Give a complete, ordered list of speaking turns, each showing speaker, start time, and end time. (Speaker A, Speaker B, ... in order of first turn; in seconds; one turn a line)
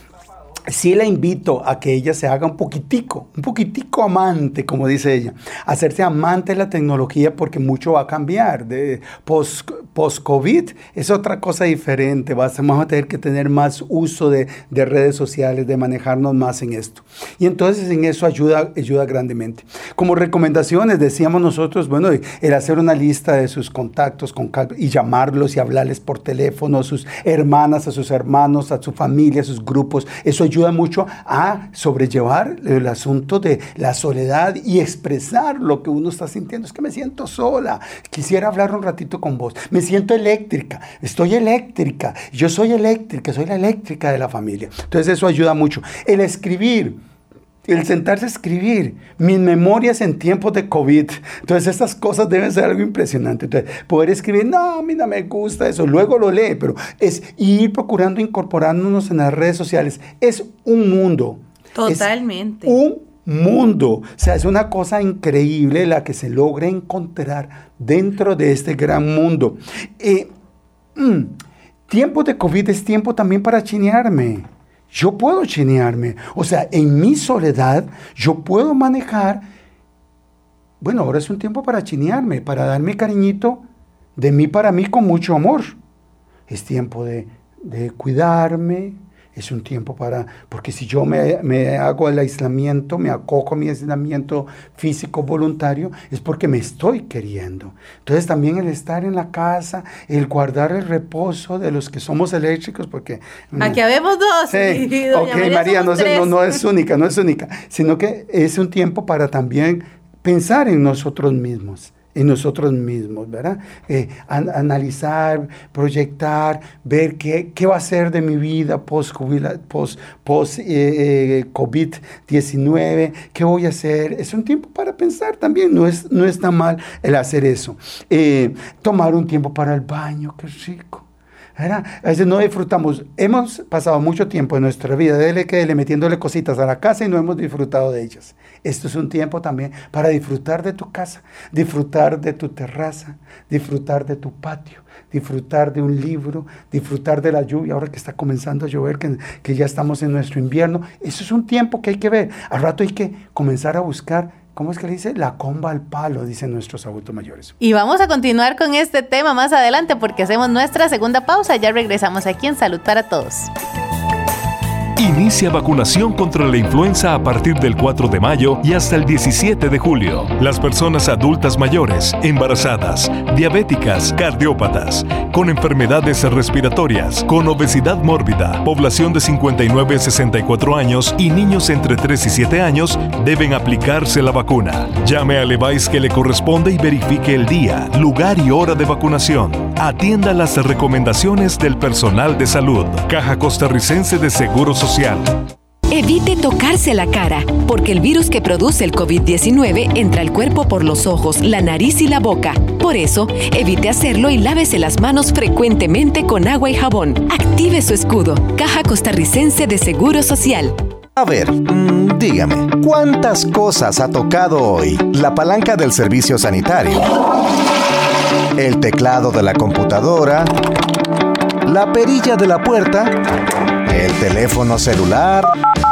Speaker A: 0.7-47.0
Speaker A: 47.6-62.1
Speaker B: 61.8-62.7
Speaker A: 62.6-70.3
Speaker A: 71.0-79.5
Speaker A: 80.8-83.6
Speaker A: 84.2-85.8
Speaker A: 86.5-103.8
Speaker B: 103.6-106.6
Speaker A: 104.5-157.5
Speaker B: 157.6-163.5
Speaker C: 165.0-195.4
Speaker D: 195.9-210.7
Speaker E: 211.2-217.1
Speaker E: 218.5-220.5
Speaker E: 221.6-223.2
Speaker E: 223.8-225.5